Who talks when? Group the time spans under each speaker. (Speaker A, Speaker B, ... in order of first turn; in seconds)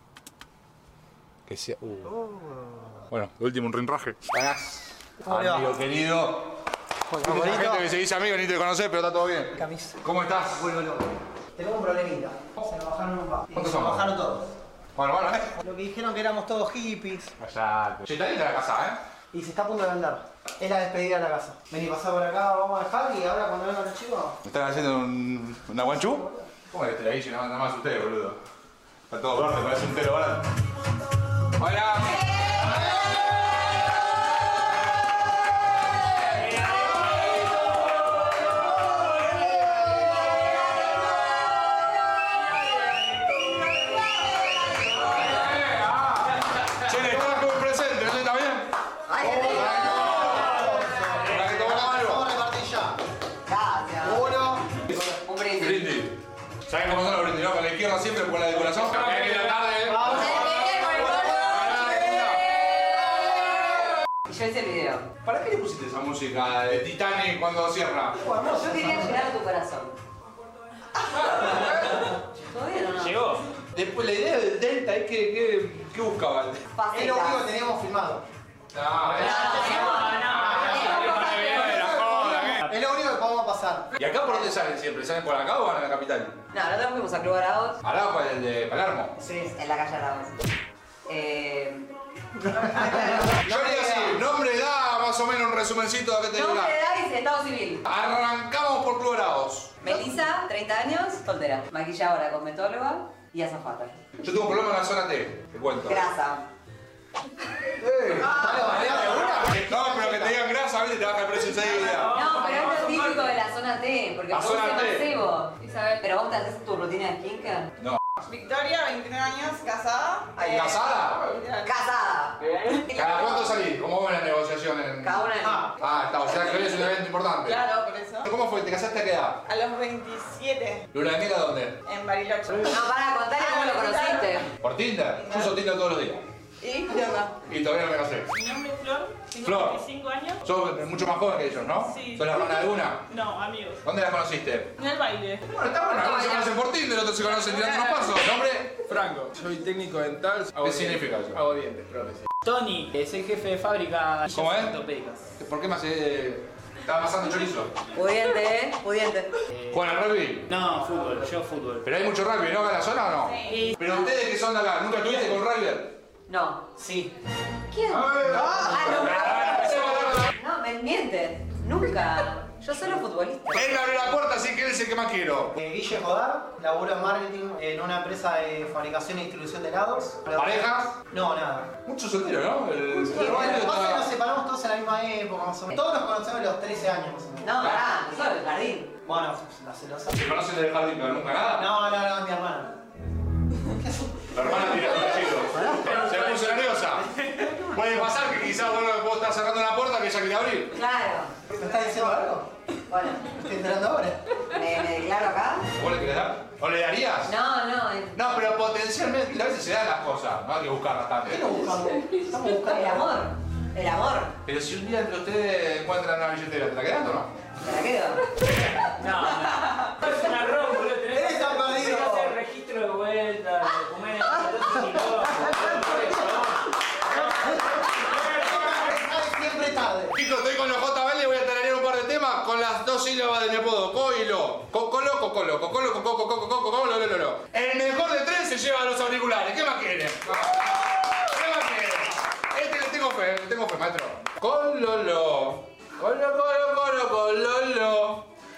Speaker A: 1.5-2.1, 3.1-6.5, 7.2-10.7, 13.5-14.1, 15.0-15.6, 17.4-19.0, 24.4-28.4, 29.1-30.5, 31.6-32.9, 45.1-48.7, 49.4-50.6, 51.2-52.2, 54.9-56.1, 56.7-62.7, 65.2-68.2, 71.1-72.0, 73.7-76.6, 78.7-82.7, 84.0-86.3, 87.8-89.1, 93.4-96.7, 97.8-99.8, 104.2-106.0, 107.8-112.2, 114.3-115.1, 120.4-121.3, 122.9-125.2, 125.8-127.7, 128.2-129.4, 130.9-131.8, 134.6-136.2, 137.5-138.3, 139.4-139.9, 140.4-143.0, 143.8-144.7, 145.5-148.8, 150.6-151.4, 154.3-154.8, 155.4-157.7, 159.7-160.6, 161.8-165.9, 167.9-170.3, 173.5-175.6, 180.3-180.9, 181.8-184.0, 190.1-191.7, 194.3-197.1, 197.7-200.7, 205.8-207.3, 208.1-211.5, 214.4-217.3, 228.4-228.9, 230.1-248.3
Speaker B: 2.1-2.4, 5.2-5.7, 7.2-7.9, 9.6-14.5, 15.6-17.3, 19.3-24.4, 25.9-26.4, 49.2-53.0, 54.0-54.7, 59.9-61.1, 68.2-69.2, 76.9-78.2, 79.3-83.9, 89.2-89.5, 92.5-94.2, 108.1-110.3, 125.4-125.7, 175.6-181.7, 182.9-187.7, 189.1-190.1, 191.5-192.8, 193.7-198.1, 201.5-202.5, 203.3-204.2, 211.3-213.1, 221.1-222.4, 225.2-226.5, 227.1-230.2
Speaker C: 49.1-50.7, 53.5-54.2, 55.2-55.9, 58.9-59.1, 60.1-65.1, 68.5-69.9, 71.1-73.4, 76.7-77.4, 79.1-81.7, 86.5-87.8, 89.5-90.4, 91.1-91.9, 96.3-97.8, 99.8-104.0, 105.8-106.5, 112.0-117.7, 120.4-120.7, 121.6-123.5, 125.0-125.6, 132.6-134.5, 157.9-159.3, 163.5-164.1, 165.1-165.3, 166.3-167.1, 167.7-174.1, 187.4-188.9, 200.7-201.3, 202.9-203.4, 204.5-205.7, 207.2-208.1, 212.5-214.3, 217.6-218.2
Speaker D: 73.0-73.4, 148.9-155.2, 160.5-161.8, 219.0-221.2, 221.8-226.1
Speaker E: 112.1-112.9, 118.3-120.4, 121.2-121.7, 127.5-128.3, 129.5-130.8, 131.9-132.8, 133.4-134.3, 136.6-137.4, 138.4-140.4, 141.9-142.6, 143.1-143.8, 144.8-145.4